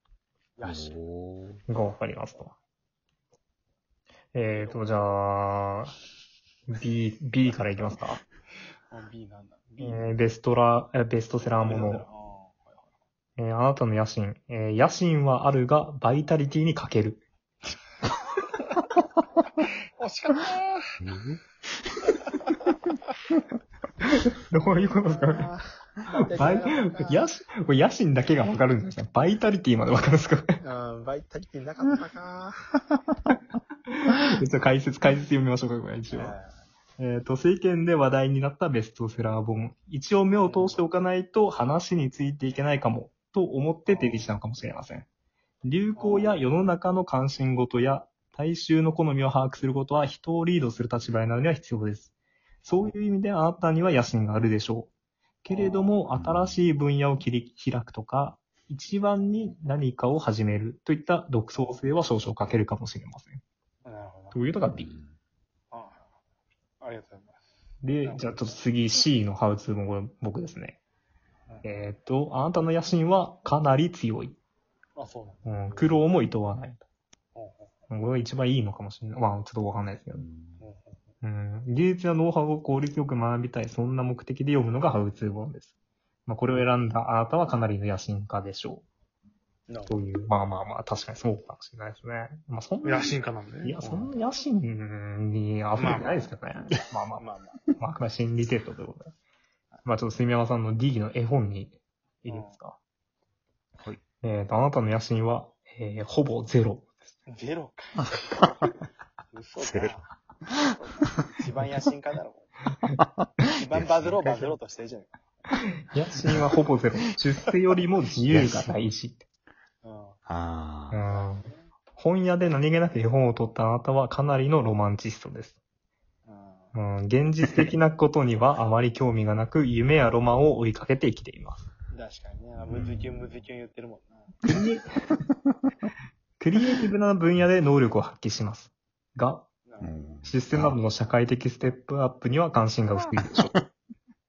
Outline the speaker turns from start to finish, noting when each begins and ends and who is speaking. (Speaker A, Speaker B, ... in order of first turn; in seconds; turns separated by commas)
Speaker A: 0.6-0.9, Speaker B: 0.6-1.6, Speaker C: 1.7-2.5, Speaker C: 4.3-5.9, Speaker A: 4.5-5.0, Speaker C: 6.7-8.2, Speaker A: 8.9-10.1, Speaker C: 9.8-12.0, Speaker A: 11.6-12.9, Speaker C: 13.4-17.2, Speaker A: 20.0-20.9, Speaker B: 21.0-21.4, Speaker C: 24.2-25.5, Speaker A: 24.9-27.3, Speaker C: 26.3-30.6, Speaker A: 30.6-33.0, Speaker C: 33.9-36.3, Speaker A: 36.1-36.6, Speaker C: 37.0-45.1, Speaker A: 40.4-40.8, Speaker A: 43.9-44.3, Speaker C: 45.6-52.1, Speaker A: 46.0-46.4, Speaker C: 52.6-54.9, Speaker C: 55.4-63.4, Speaker A: 55.5-55.9, Speaker B: 56.1-56.6, Speaker A: 63.8-64.4, Speaker C: 64.3-64.9, Speaker B: 64.7-65.2, Speaker A: 65.7-66.0, Speaker A: 66.8-67.4, Speaker C: 67.8-70.8, Speaker A: 68.0-68.5, Speaker C: 71.6-74.4, Speaker A: 75.0-76.0, Speaker C: 75.4-76.8, Speaker A: 77.3-77.7, Speaker C: 77.9-80.2, Speaker B: 80.1-80.6, Speaker A: 80.6-81.0, Speaker C: 81.2-85.7, Speaker C: 86.2-88.8, Speaker A: 89.7-89.9, Speaker C: 89.9-97.2, Speaker A: 92.8-94.1, Speaker A: 95.8-97.6, Speaker C: 97.8-99.1, Speaker C: 99.8-102.8, Speaker A: 102.2-102.5, Speaker C: 104.2-106.9, Speaker A: 107.3-108.6, Speaker A: 109.3-110.0, Speaker B: 109.6-110.0, Speaker A: 110.8-112.5, Speaker B: 113.0-114.2, Speaker A: 113.5-115.1, Speaker C: 115.9-119.2, Speaker B: 118.3-118.7, Speaker A: 119.8-120.2, Speaker B: 120.2-121.0, Speaker C: 120.9-125.6, Speaker A: 121.1-121.7, Speaker A: 126.2-126.7, Speaker C: 126.7-131.7, Speaker A: 131.9-134.4, Speaker B: 132.6-133.2, Speaker C: 134.4-134.9, Speaker C: 136.4-139.5, Speaker A: 139.7-139.9, Speaker B: 139.8-140.8, Speaker C: 140.2-143.6